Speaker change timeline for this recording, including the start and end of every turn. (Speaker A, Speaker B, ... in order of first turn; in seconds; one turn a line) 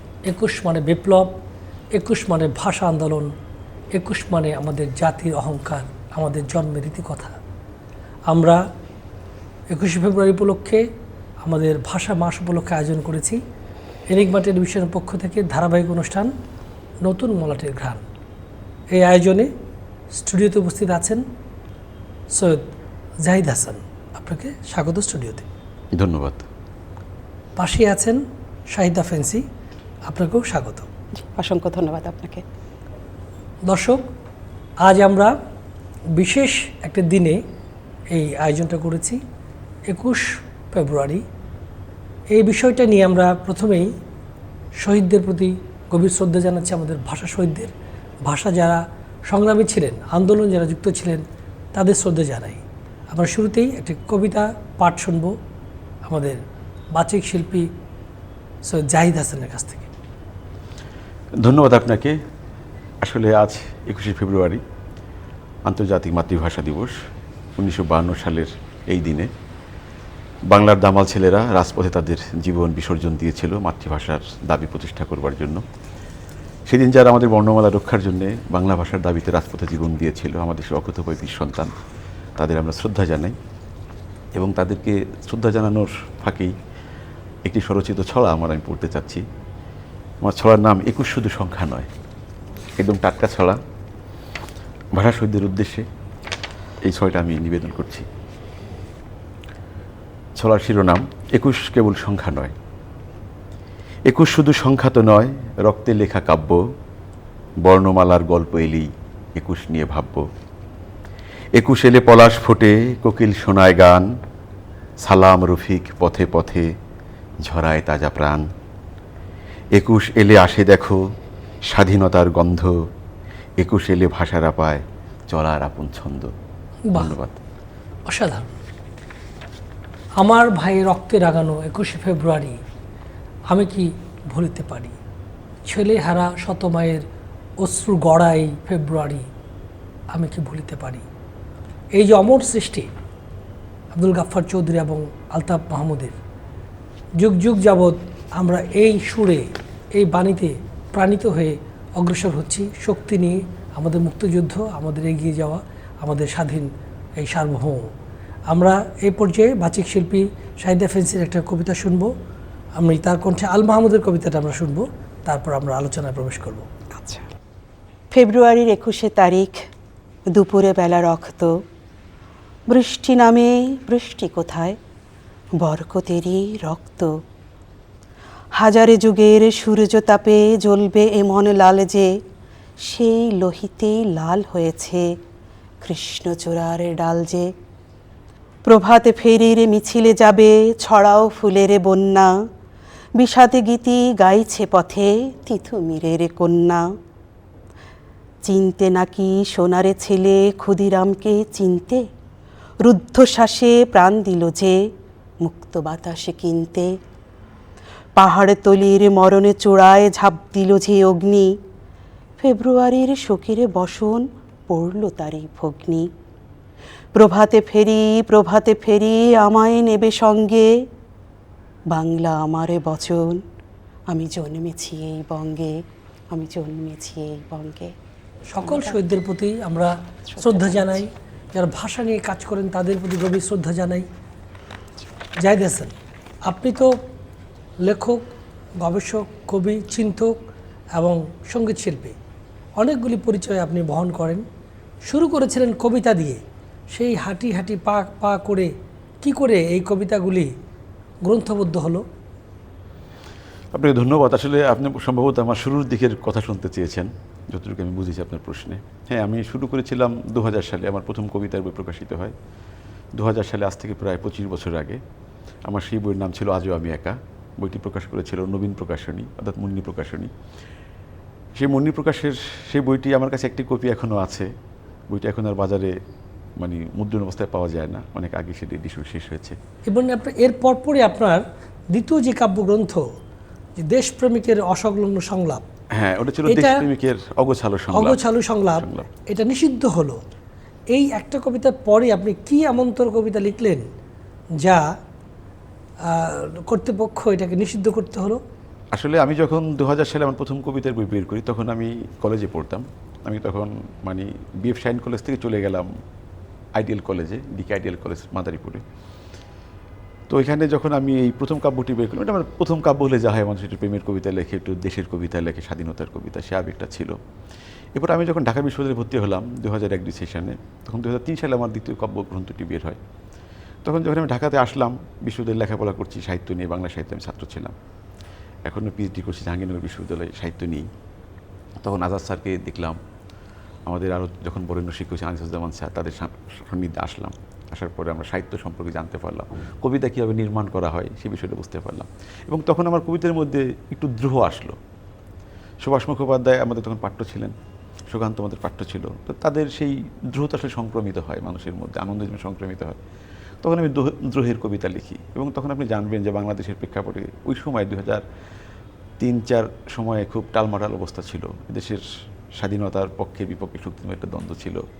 Speaker A: 0.3-1.3
Speaker A: 1.9-3.3
Speaker A: 3.9-7.3
Speaker A: 8.3-8.6
Speaker A: 9.7-10.8
Speaker A: 11.4-13.4
Speaker A: 14.1-16.3
Speaker A: 17.0-18.0
Speaker A: 18.9-19.5
Speaker A: 20.1-21.2
Speaker A: 22.3-22.7
Speaker A: 23.2-25.4
Speaker B: 25.9-26.4
Speaker A: 27.6-29.4
Speaker A: 30.1-30.9
Speaker C: 31.1-32.4
Speaker A: 33.7-34.0
Speaker A: 34.8-35.3
Speaker A: 36.2-37.4
Speaker A: 38.1-39.2
Speaker A: 39.9-41.2
Speaker A: 42.3-43.9
Speaker A: 44.8-47.7
Speaker A: 48.2-51.2
Speaker A: 51.7-55.3
Speaker A: 56.0-56.4
Speaker A: 56.9-57.7
Speaker A: 58.6-59.9
Speaker B: 61.4-62.2
Speaker B: 63.0-64.6
Speaker B: 65.6-67.0
Speaker B: 67.5-69.3
Speaker B: 70.5-75.6
Speaker B: 76.7-81.7
Speaker B: 82.4-83.4
Speaker B: 84.3-86.5
Speaker B: 87.5-89.2
Speaker B: 90.2-91.9
Speaker B: 92.8-93.6
Speaker B: 95.0-95.9
Speaker B: 96.8-98.1
Speaker B: 100.4-102.5
Speaker B: 104.1-106.6
Speaker B: 107.6-110.2
Speaker B: 111.5-114.1
Speaker B: 115.0-116.7
Speaker B: 117.4-118.5
Speaker B: 119.7-121.0
Speaker B: 121.6-122.8
Speaker B: 123.6-126.3
Speaker B: 126.9-127.4
Speaker A: 128.1-128.5
Speaker A: 130.2-132.6
Speaker A: 133.5-134.9
Speaker A: 135.7-137.0
Speaker A: 137.6-139.2
Speaker A: 140.1-141.0
Speaker A: 141.9-142.9
Speaker A: 143.9-146.1
Speaker A: 147.2-157.9
Speaker A: 158.5-162.1
Speaker A: 162.8-166.7
Speaker C: 166.9-167.3
Speaker C: 168.1-169.7
Speaker C: 170.3-171.6
Speaker C: 172.7-174.8
Speaker C: 175.6-177.2
Speaker C: 178.6-182.2
Speaker C: 182.8-185.1
Speaker C: 185.8-187.5
Speaker C: 188.7-192.3
Speaker C: 193.2-196.9
Speaker C: 198.4-202.1
Speaker C: 202.8-204.9
Speaker C: 205.4-207.0
Speaker C: 208.2-211.6
Speaker C: 212.4-216.1
Speaker C: 217.1-220.8
Speaker C: 221.9-223.4
Speaker C: 224.1-227.9
Speaker A: 228.5-234.1
Speaker C: 228.6-229.0
Speaker C: 230.3-231.0
Speaker A: 235.4-235.9
Speaker A: 236.5-236.9
Speaker A: 237.8-238.2
Speaker A: 238.8-240.4
Speaker A: 240.9-242.2
Speaker A: 242.8-244.4
Speaker A: 245.1-248.7
Speaker A: 249.2-250.5
Speaker A: 251.2-252.0
Speaker B: 253.7-262.3
Speaker B: 263.1-265.0
Speaker B: 265.6-270.3
Speaker B: 271.6-274.5
Speaker B: 275.1-275.9
Speaker B: 276.6-279.6
Speaker A: 279.9-283.0
Speaker A: 283.8-285.6
Speaker B: 285.9-289.1
Speaker A: 286.5-286.8
Speaker A: 287.9-290.2
Speaker A: 290.9-293.9
Speaker A: 294.6-294.9
Speaker A: 296.0-298.4
Speaker B: 298.9-305.9
Speaker B: 306.7-308.8
Speaker B: 310.3-317.2
Speaker B: 317.9-323.0
Speaker B: 323.8-327.7
Speaker B: 328.6-330.9
Speaker B: 331.8-333.0
Speaker B: 333.9-344.8
Speaker B: 345.8-347.5
Speaker B: 348.1-353.0
Speaker B: 353.6-358.2
Speaker B: 359.2-362.0
Speaker B: 362.6-364.8